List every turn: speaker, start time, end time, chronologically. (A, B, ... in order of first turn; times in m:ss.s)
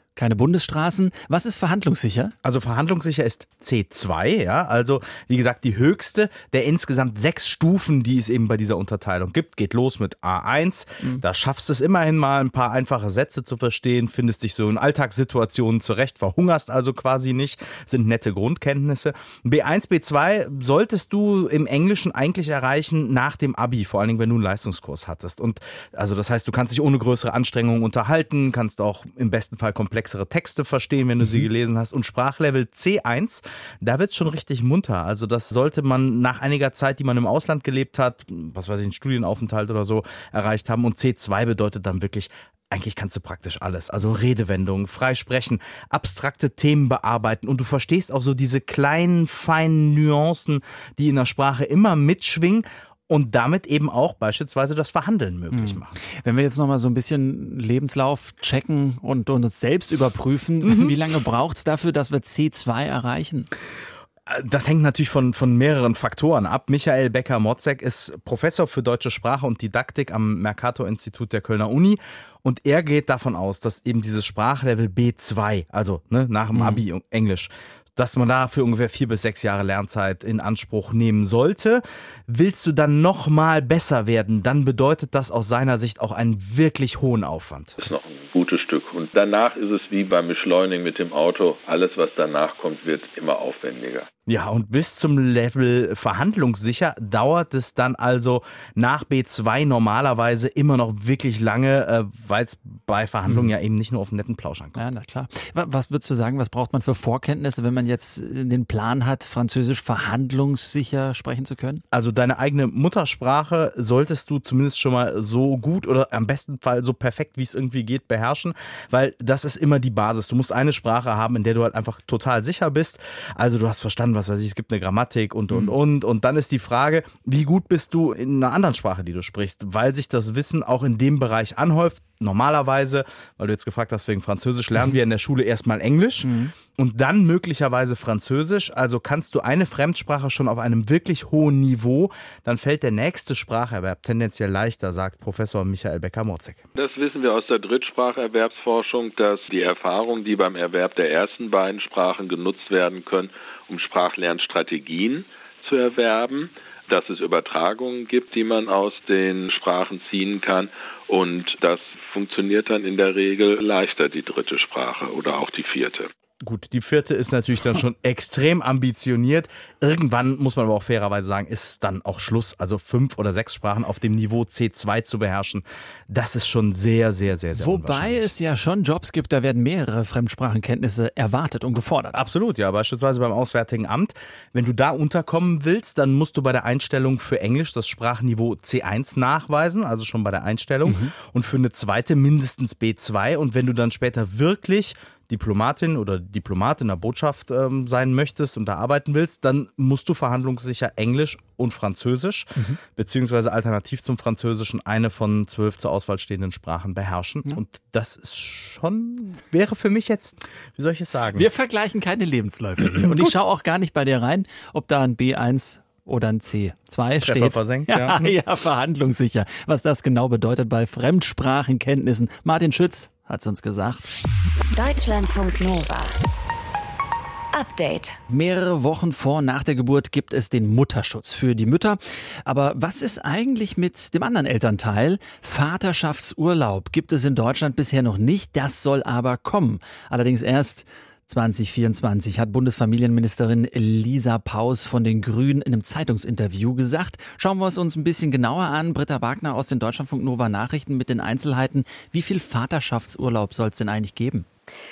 0:00.2-0:02.3 A
0:02.4-0:55.9 B
0:55.5-1:03.5 A
1:00.6-1:00.9 B
1:04.3-1:27.8 B
1:16.5-1:16.8 A
1:27.8-1:34.1 C
1:34.3-1:44.8 B
1:44.8-1:51.8 A
1:51.9-2:26.6 B
2:16.2-2:16.5 A
2:26.8-2:46.1 C
2:46.4-2:58.3 B
2:57.6-3:02.2 A
3:02.1-3:31.5 B
3:10.9-3:11.1 A
3:31.3-3:44.1 A
3:32.8-3:33.4 B
3:37.2-3:38.3 B
3:44.7-3:46.2 D
3:47.5-3:48.2 D
3:48.3-4:14.5 A